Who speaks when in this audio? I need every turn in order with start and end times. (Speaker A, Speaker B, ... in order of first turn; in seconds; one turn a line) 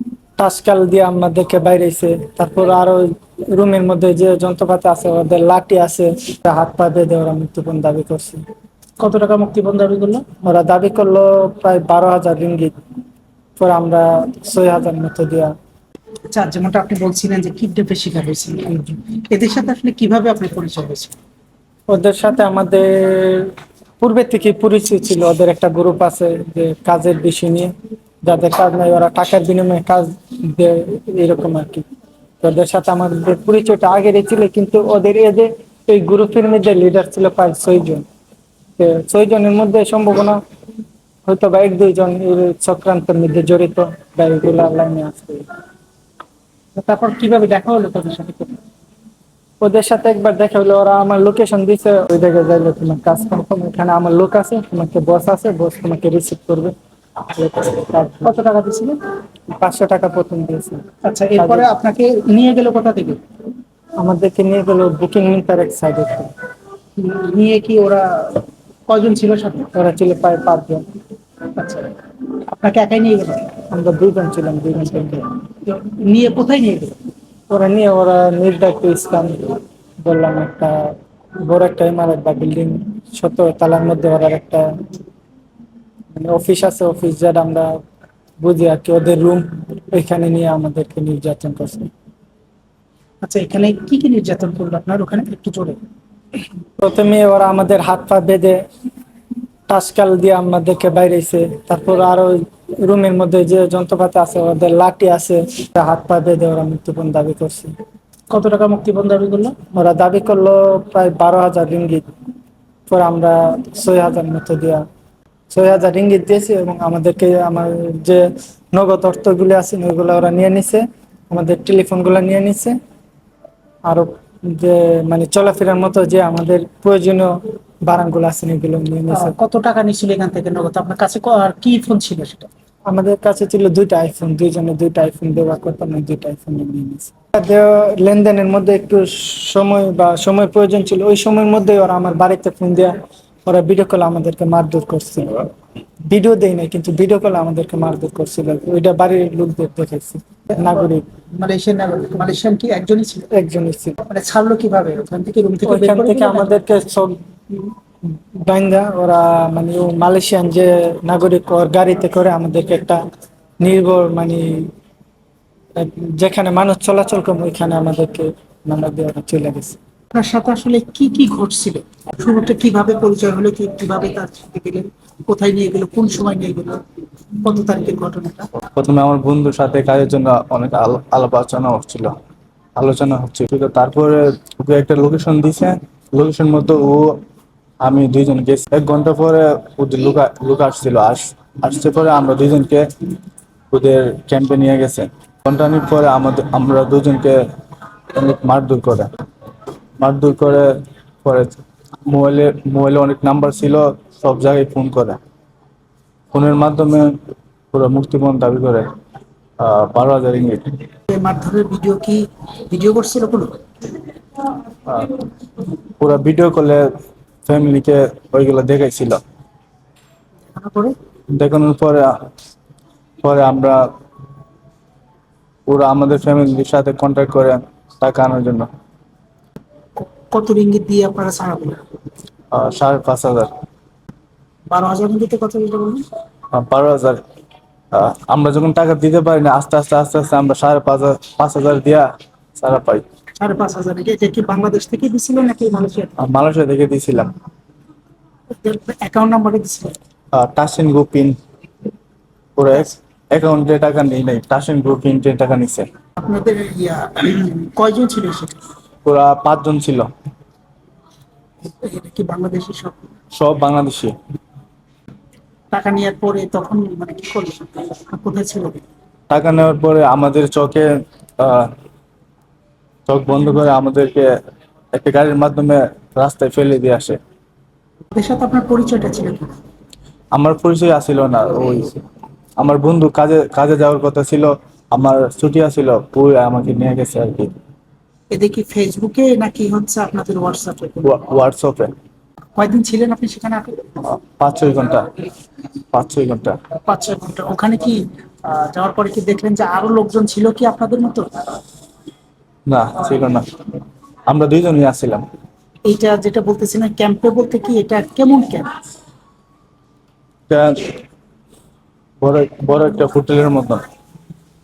Speaker A: 0.4-8.4
Speaker B: 9.0-10.3
Speaker A: 10.4-12.7
Speaker A: 13.6-15.5
Speaker B: 16.3-21.1
Speaker A: 21.9-27.7
Speaker A: 28.2-31.9
Speaker A: 32.4-38.0
Speaker A: 38.8-40.4
Speaker A: 41.2-45.5
Speaker B: 46.8-48.6
Speaker A: 49.6-56.7
Speaker A: 57.3-58.3
Speaker B: 58.2-59.0
Speaker A: 59.5-60.8
Speaker B: 61.0-63.2
Speaker A: 61.4-61.7
Speaker A: 64.0-66.3
Speaker B: 67.0-69.7
Speaker A: 69.7-70.8
Speaker B: 71.6-72.0
Speaker B: 72.5-73.5
Speaker A: 73.7-75.3
Speaker B: 75.7-76.9
Speaker A: 77.5-84.7
Speaker A: 86.1-87.8
Speaker A: 88.4-91.9
Speaker B: 93.2-95.8
Speaker A: 96.8-98.6
Speaker A: 99.7-107.7
Speaker B: 108.3-109.6
Speaker A: 109.7-112.1
Speaker A: 112.9-114.8
Speaker A: 115.5-122.8
Speaker A: 123.8-129.3
Speaker B: 129.1-132.5
Speaker A: 132.9-145.5
Speaker A: 146.1-151.1
Speaker B: 150.6-153.3
Speaker A: 153.3-153.9
Speaker B: 154.0-156.7
Speaker A: 155.7-157.2
Speaker A: 158.1-163.0
Speaker A: 163.6-164.7
Speaker A: 165.7-169.8
Speaker B: 170.1-176.8
Speaker B: 177.4-178.5
Speaker C: 178.6-182.1
Speaker C: 182.8-187.2
Speaker C: 187.8-192.8
Speaker C: 193.7-197.4
Speaker C: 198.1-199.1
Speaker C: 200.0-205.2
Speaker C: 206.3-207.2
Speaker C: 207.7-208.9
Speaker C: 209.6-210.7
Speaker B: 211.1-213.6
Speaker C: 214.8-215.2
Speaker C: 216.0-216.8
Speaker C: 217.4-219.2
Speaker B: 220.5-220.9
Speaker C: 221.3-222.1
Speaker C: 223.2-223.8
Speaker C: 225.7-228.7
Speaker B: 230.0-231.8
Speaker C: 232.5-233.5
Speaker B: 234.7-236.0
Speaker C: 236.5-237.2
Speaker C: 237.9-243.0
Speaker B: 243.4-246.1
Speaker C: 246.2-247.3
Speaker B: 248.6-250.0
Speaker C: 250.3-251.4
Speaker C: 252.6-255.9
Speaker B: 256.2-258.6
Speaker C: 259.0-260.1
Speaker B: 261.8-263.1
Speaker C: 263.3-264.1
Speaker B: 265.7-268.8
Speaker C: 269.3-271.7
Speaker C: 273.1-274.3
Speaker C: 274.9-277.2
Speaker B: 278.1-279.5
Speaker C: 280.3-282.0
Speaker C: 282.6-287.5
Speaker B: 288.3-291.2
Speaker C: 291.0-291.9
Speaker B: 292.6-294.0
Speaker C: 294.2-295.1
Speaker C: 295.9-296.6
Speaker B: 296.8-301.3
Speaker C: 302.7-303.5
Speaker C: 304.3-305.2
Speaker B: 305.8-308.7
Speaker C: 310.5-311.0
Speaker C: 312.2-313.8